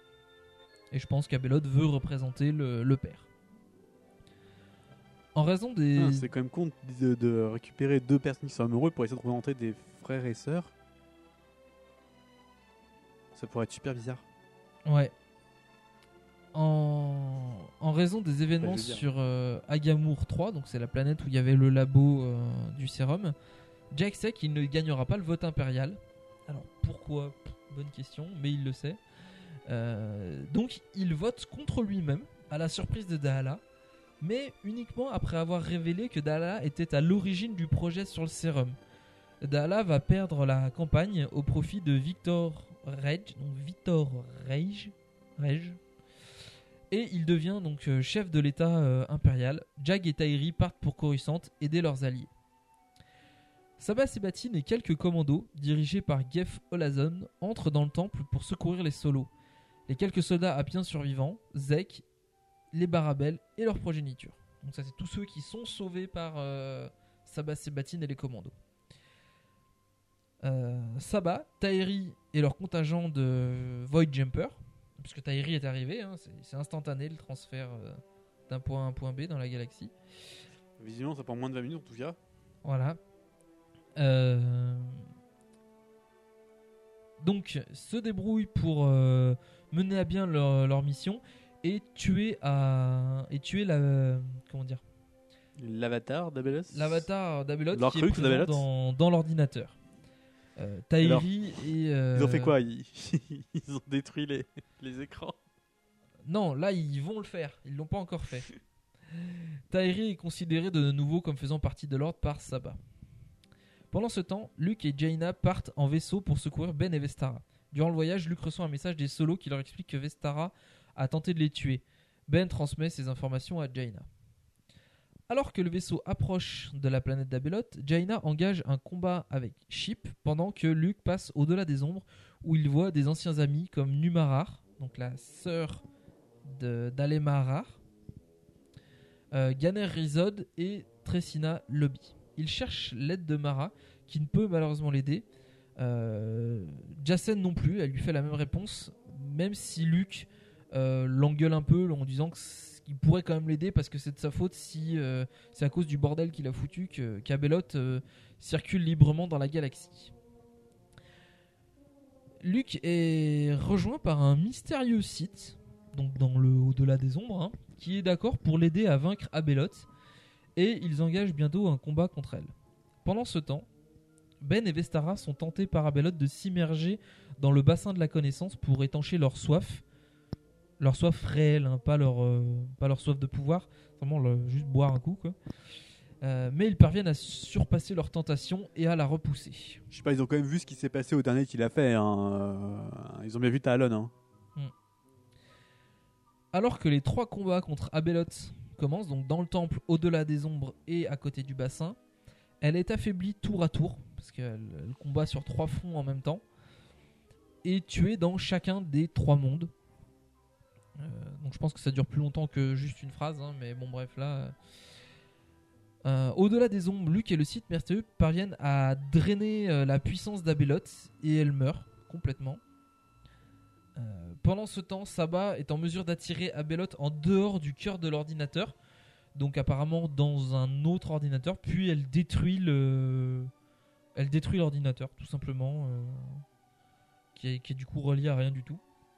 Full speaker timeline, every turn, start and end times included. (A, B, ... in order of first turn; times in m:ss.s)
0:00.9-0:03.3 A
0:05.4-0:06.3 A
0:06.0-0:10.7 B
0:13.4-0:14.2 B
0:14.9-0:15.1 A
0:16.5-0:23.4 A
0:18.6-0:19.1 B
0:23.9-0:29.0 A
0:29.7-0:33.6 A
0:34.2-0:38.8 A
0:39.4-0:45.8 A
0:46.9-0:52.3 A
0:53.8-0:59.3 A
0:59.9-1:02.0 A
1:02.7-1:08.6 A
1:10.4-1:18.0 A
1:18.5-1:19.9 A
1:20.8-1:22.2 B
1:22.6-1:23.0 A
1:24.0-1:25.0 A
1:27.2-1:34.8 A
1:35.6-1:37.1 B
1:36.7-1:39.8 A
1:37.7-1:38.7 B
1:40.6-1:42.6 A
1:41.0-1:41.3 B
1:42.1-1:45.4 B
1:46.3-1:48.5 A
1:49.7-1:52.8 A
1:53.9-2:04.1 A
2:05.3-2:15.8 A
2:16.4-2:17.8 A
2:19.3-2:25.2 A
2:25.8-2:40.1 A
2:42.4-2:49.9 A
2:50.6-2:52.5 A
2:53.0-2:53.7 A
2:54.4-2:59.8 A
3:00.8-3:05.4 A
3:06.2-3:09.8 A
3:09.9-3:14.1 B
3:16.5-3:22.0 A
3:22.6-3:26.4 A
3:27.6-3:29.7 A
3:31.0-3:34.6 A
3:36.0-3:42.6 A
3:44.0-3:48.8 A
3:49.4-3:53.5 A
3:54.2-3:56.4 A
3:57.4-3:58.8 A